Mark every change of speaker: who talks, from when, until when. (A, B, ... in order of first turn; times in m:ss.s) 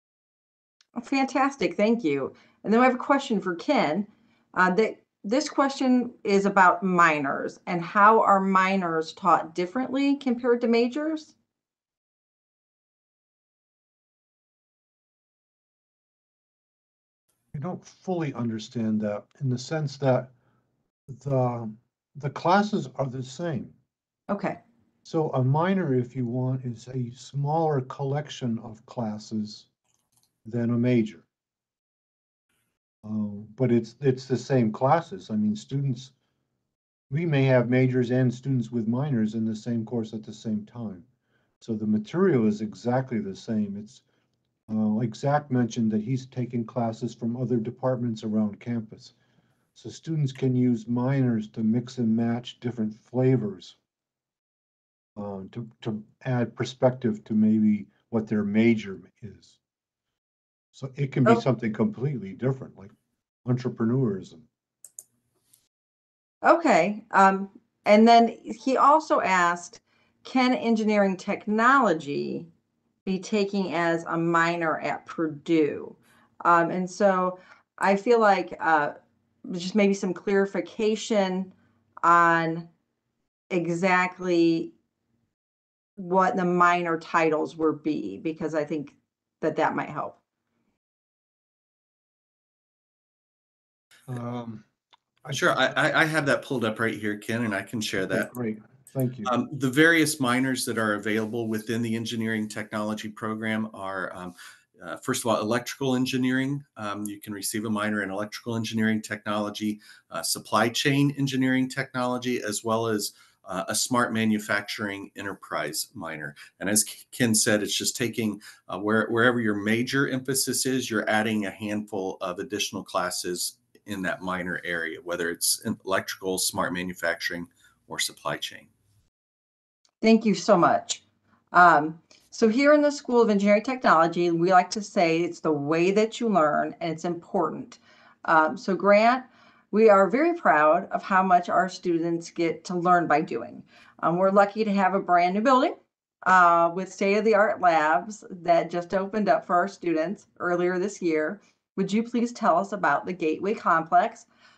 0:01.0-0:11.3 A
0:17.5-0:20.3 B
0:21.1-0:23.7 B
0:24.3-0:24.6 A
0:25.0-0:29.7 B
0:30.4-0:31.2 B
0:33.0-0:36.1 B
0:37.1-0:41.0 B
0:41.6-0:44.0 B
0:44.7-0:49.1 B
0:49.7-0:53.8 B
0:55.2-0:59.6 B
1:00.7-1:02.9 B
1:03.4-1:04.4 B
1:06.4-1:12.5 A
1:13.0-1:21.5 A
1:22.0-1:22.7 A
1:23.5-1:24.7 A
1:26.0-1:30.2 A
1:34.1-1:34.6 B
1:35.3-1:38.3 C
1:38.1-1:39.3 B
1:39.2-2:08.7 C
2:10.0-2:11.0 A
2:11.5-2:34.3 A